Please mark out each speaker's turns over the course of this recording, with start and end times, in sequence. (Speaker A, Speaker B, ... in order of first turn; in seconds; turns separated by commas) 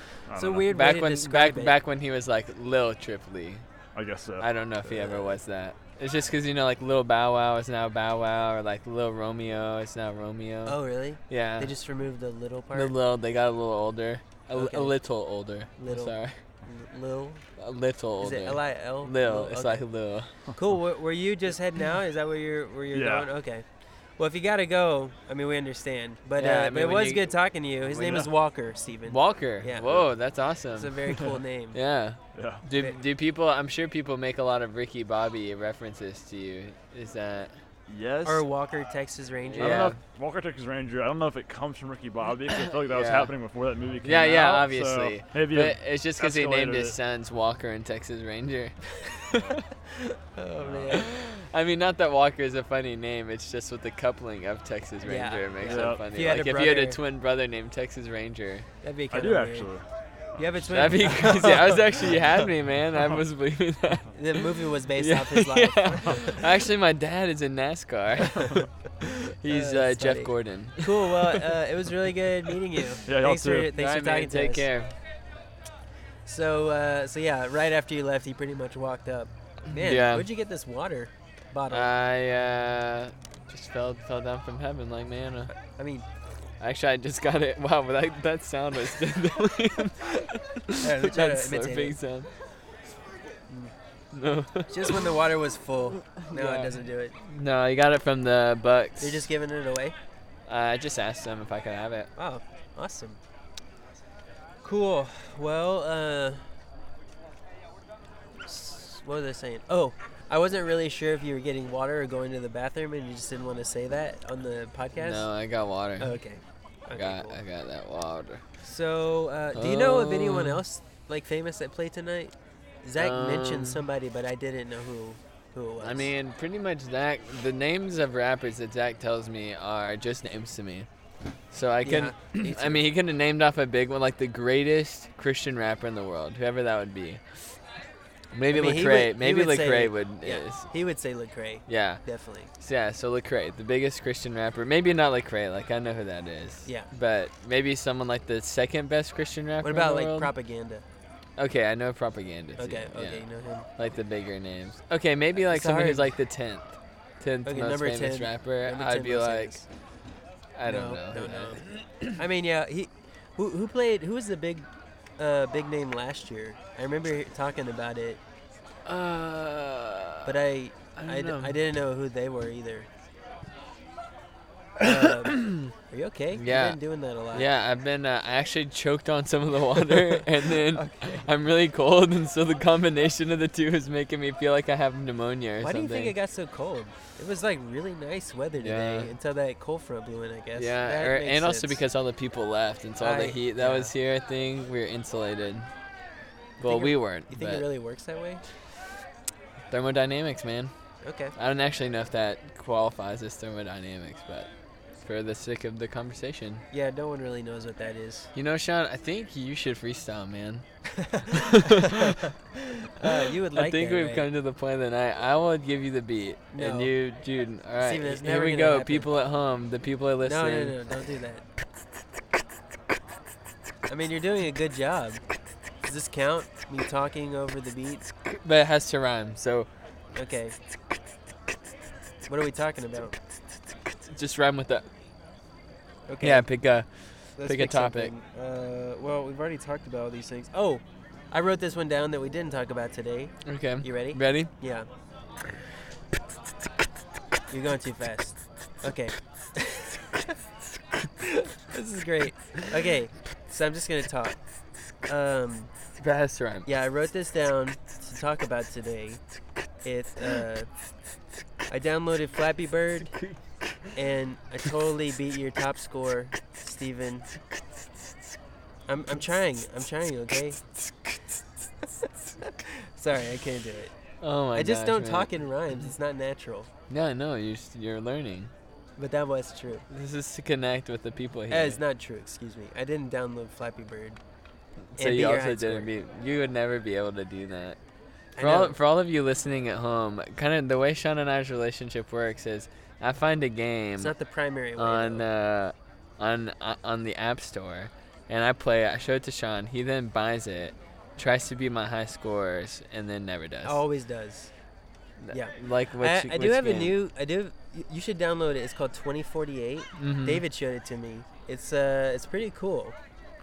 Speaker A: 0.3-0.7, Speaker B: 0.3-1.8, Speaker C: 0.7-3.6, Speaker A: 3.9-4.5, Speaker C: 4.4-10.8, Speaker B: 4.8-5.4, Speaker B: 10.7-13.0, Speaker C: 11.3-11.7, Speaker C: 12.7-16.4, Speaker B: 14.5-15.0, Speaker B: 15.8-17.4, Speaker C: 17.6-20.3, Speaker B: 18.2-19.9, Speaker B: 20.6-23.6, Speaker A: 22.9-23.3, Speaker B: 24.2-30.1, Speaker C: 26.4-27.3, Speaker A: 27.8-28.3, Speaker C: 29.1-30.9, Speaker B: 30.7-31.8, Speaker C: 31.7-37.5, Speaker A: 32.3-32.6, Speaker A: 37.9-38.5, Speaker B: 38.2-39.9, Speaker C: 39.6-40.0, Speaker A: 39.6-47.0, Speaker C: 42.9-43.3, Speaker C: 44.0-49.5, Speaker B: 50.3-51.1, Speaker A: 50.6-51.0, Speaker C: 50.9-58.7, Speaker B: 55.0-57.0, Speaker A: 55.6-56.1, Speaker B: 58.8-59.7, Speaker A: 59.1-60.7, Speaker B: 60.4-62.1, Speaker C: 60.7-68.4, Speaker A: 63.0-63.2, Speaker B: 64.1-66.4, Speaker C: 69.2-71.4, Speaker B: 69.4-74.7, Speaker A: 73.1-73.7, Speaker C: 73.7-74.9, Speaker B: 76.2-82.0, Speaker C: 79.7-80.3, Speaker C: 81.7-85.5, Speaker B: 85.6-86.1, Speaker C: 86.6-92.3, Speaker B: 90.8-92.0, Speaker C: 94.1-95.1, Speaker B: 94.7-97.2, Speaker C: 96.0-99.3, Speaker B: 99.0-100.0, Speaker C: 100.5-102.1, Speaker B: 102.2-103.2, Speaker B: 104.6-106.5, Speaker B: 108.5-115.3, Speaker C: 115.0-116.1, Speaker B: 116.0-117.4, Speaker C: 117.0-118.4, Speaker B: 118.6-122.3, Speaker C: 119.5-120.6, Speaker B: 122.8-126.1, Speaker C: 123.0-123.9, Speaker C: 125.8-130.9, Speaker C: 131.5-137.6, Speaker B: 131.8-132.8, Speaker C: 138.3-140.7, Speaker B: 138.5-142.5, Speaker C: 141.7-142.0, Speaker C: 142.6-150.3, Speaker B: 149.6-150.8, Speaker C: 151.4-153.2, Speaker B: 152.6-153.7, Speaker C: 153.8-159.6, Speaker B: 155.5-156.1, Speaker B: 157.4-159.7, Speaker C: 160.6-162.2, Speaker B: 160.6-161.6, Speaker B: 162.1-164.7, Speaker B: 165.2-168.2, Speaker C: 168.8-170.4, Speaker B: 170.2-172.9, Speaker C: 171.0-171.6, Speaker B: 174.8-177.5, Speaker C: 176.3-176.8, Speaker C: 177.3-186.1, Speaker B: 180.5-181.3, Speaker B: 185.6-191.8, Speaker C: 188.6-189.1, Speaker C: 190.6-195.7, Speaker B: 193.0-193.9, Speaker C: 196.6-197.6, Speaker B: 196.6-198.4, Speaker C: 199.7-200.7, Speaker B: 201.0-201.3, Speaker C: 201.4-204.5, Speaker C: 205.0-206.6, Speaker B: 206.7-208.3, Speaker C: 208.3-210.6, Speaker B: 211.1-212.0, Speaker C: 211.3-212.1, Speaker B: 213.0-214.3, Speaker C: 213.2-220.8, Speaker B: 216.5-216.9, Speaker B: 217.8-219.1, Speaker B: 220.2-221.4, Speaker B: 223.9-225.2, Speaker B: 225.8-228.1, Speaker C: 228.2-229.7, Speaker B: 230.1-230.6, Speaker B: 232.3-233.2, Speaker C: 234.0-234.9, Speaker B: 236.1-236.5, Speaker C: 236.2-236.9, Speaker B: 237.4-244.9, Speaker C: 237.4-238.1, Speaker C: 243.5-244.5, Speaker B: 247.5-249.9, Speaker B: 251.6-254.4, Speaker B: 255.1-255.7, Speaker C: 256.0-256.7, Speaker B: 256.6-259.2, Speaker B: 259.8-260.7, Speaker B: 261.7-263.1, Speaker B: 263.9-267.3, Speaker B: 268.9-270.6, Speaker B: 272.0-273.9, Speaker C: 274.2-275.3, Speaker B: 274.5-276.7, Speaker C: 276.9-278.5, Speaker B: 279.0-279.9, Speaker C: 279.9-281.8, Speaker B: 281.5-284.2, Speaker C: 284.9-287.8, Speaker B: 285.0-286.0, Speaker B: 288.4-288.8, Speaker C: 288.4-294.1, Speaker B: 294.0-295.2, Speaker C: 294.8-303.8, Speaker B: 303.6-304.5, Speaker C: 305.2-307.0, Speaker B: 305.3-313.0, Speaker C: 310.0-310.4